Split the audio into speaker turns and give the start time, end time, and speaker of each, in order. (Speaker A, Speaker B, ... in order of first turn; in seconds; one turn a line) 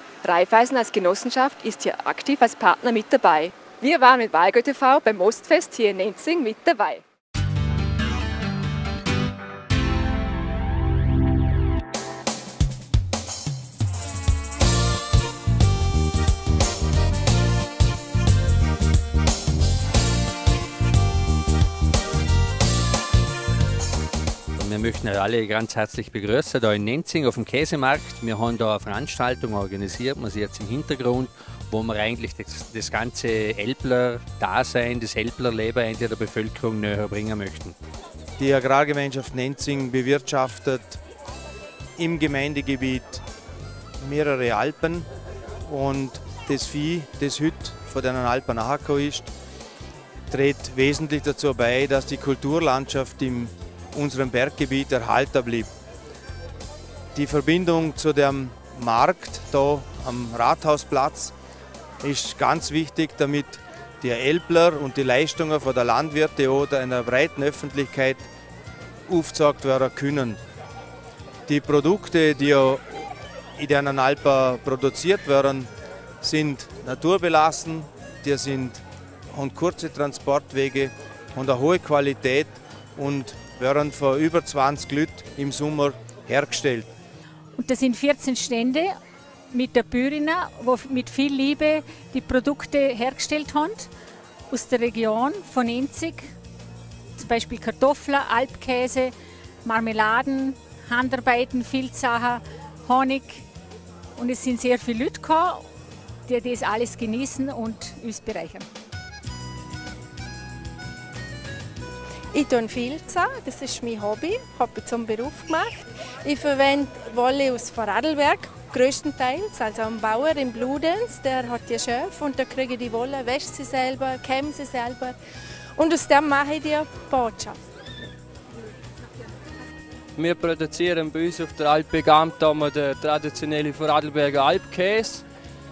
Speaker A: 0.2-7.0
Speaker B: 24.6-37.8
Speaker C: 38.4-41.0
Speaker C: 42.0-43.2
Speaker C: 44.0-45.1
Speaker C: 45.7-49.3
Speaker C: 50.3-55.7
Speaker C: 57.1-61.3
Speaker C: 62.0-68.2
Speaker C: 69.1-70.4
Speaker C: 71.5-75.7
Speaker C: 76.2-86.9
Speaker D: 87.6-89.0
Speaker D: 89.5-93.9
Speaker D: 94.5-96.3
Speaker D: 97.2-103.5
Speaker D: 104.2-105.7
Speaker D: 106.3-108.7
Speaker E: 112.3-125.2
Speaker E: 125.8-127.6
Speaker F: 130.2-135.2